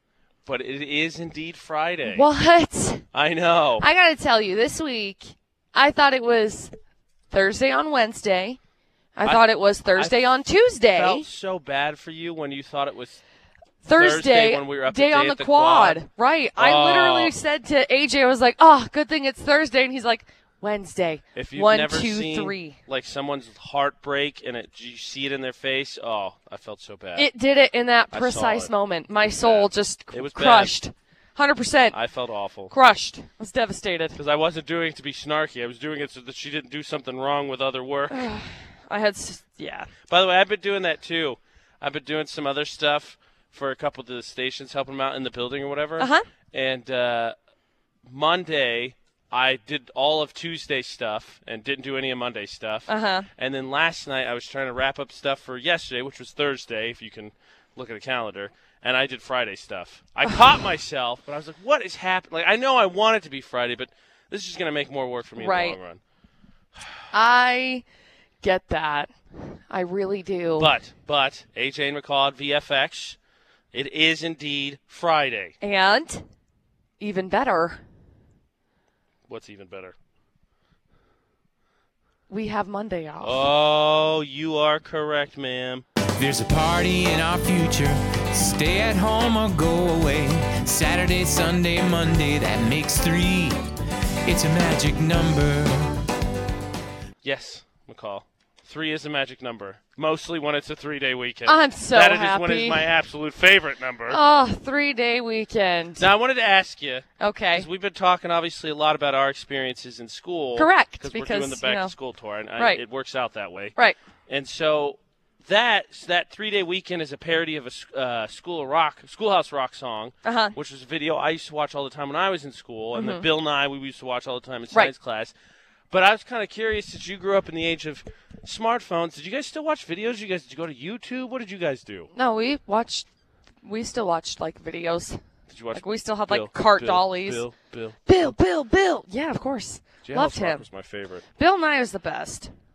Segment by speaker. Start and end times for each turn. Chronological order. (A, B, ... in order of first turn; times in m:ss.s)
0:00.4-0:02.2 A
0:02.0-0:03.0 B
0:03.1-0:03.8 A
0:03.8-0:06.7 B
0:07.3-0:08.6 B
0:09.1-0:11.2 B
0:09.2-0:10.4 A
0:10.9-0:13.2 A
0:13.8-0:22.8 B
0:13.9-0:16.0 A
0:16.6-0:17.3 A
0:21.3-0:27.3 A
0:27.2-0:32.0 B
0:28.1-0:28.7 A
0:29.2-0:30.7 A
0:31.9-0:32.7 A
0:32.7-0:34.2 B
0:34.2-0:38.2 A
0:38.1-0:39.9 B
0:40.1-0:47.4 A
0:46.0-0:46.2 B
0:48.0-1:06.0 A
0:52.9-0:53.3 B
1:05.4-1:05.8 B
1:07.1-1:07.8 B
1:08.4-1:10.7 B
1:10.6-1:13.2 A
1:13.7-1:15.5 A
1:15.6-1:16.2 B
1:17.0-1:17.8 B
1:19.3-1:19.9 A
1:22.3-1:23.4 B
1:23.2-1:25.8 A
1:26.2-1:33.6 C
1:34.2-1:36.0 C
1:37.2-1:44.2 A
1:41.4-1:42.9 B
1:44.1-1:46.1 B
1:46.0-1:53.8 A
1:47.2-1:47.7 B
1:50.6-1:51.9 B
1:54.3-2:05.3 A
2:00.2-2:00.6 B
2:03.0-2:03.3 B
2:05.9-2:12.1 A
2:12.1-2:13.0 B
2:13.6-2:15.2 B
2:15.5-2:18.3 A
2:15.7-2:17.4 B
2:18.1-2:20.6 B
2:20.0-2:21.2 A
2:21.4-2:22.5 B